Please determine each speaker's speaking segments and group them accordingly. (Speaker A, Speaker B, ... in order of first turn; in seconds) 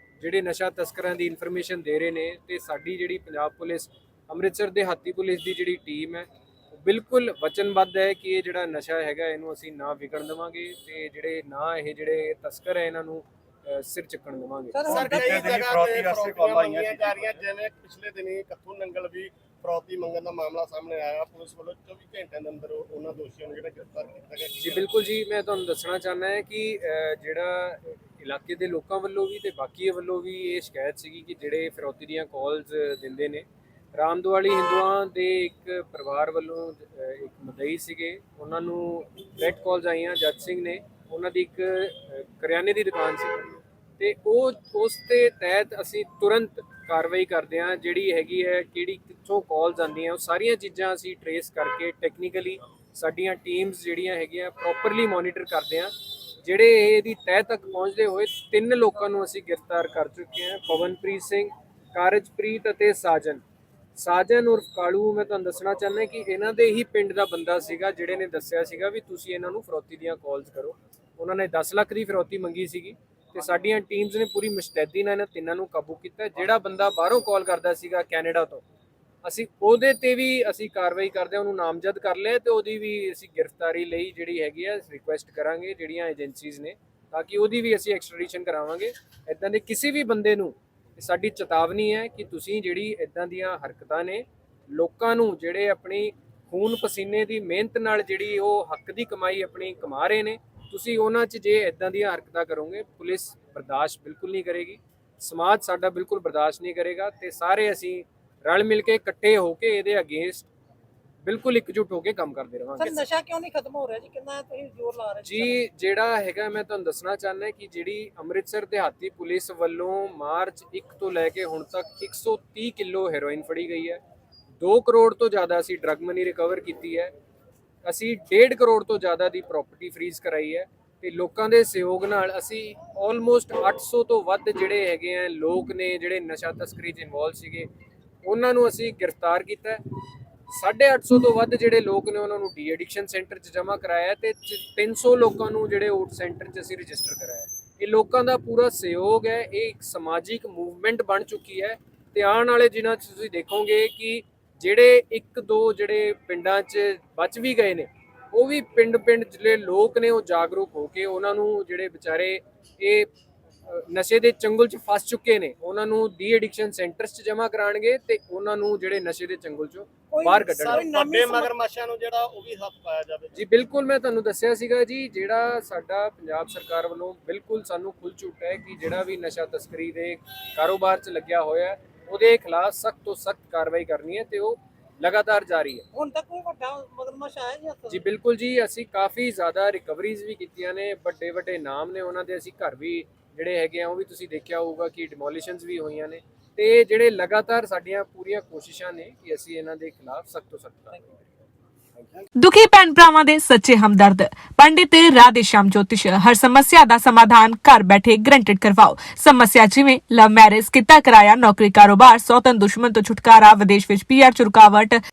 Speaker A: 0.2-15.0, 24.6-63.4, 64.0-78.6, 79.2-110.5, 111.2-113.0, 115.2-124.0, 124.6-127.1, 127.8-137.7, 138.2-139.8, 140.5-163.1, 163.7-170.9, 173.3-185.8, 187.9-201.2
Speaker B: 14.7-17.2, 112.8-115.6, 170.1-171.5, 185.9-188.0
Speaker C: 14.9-24.6, 170.7-173.4
Speaker D: 202.4-215.0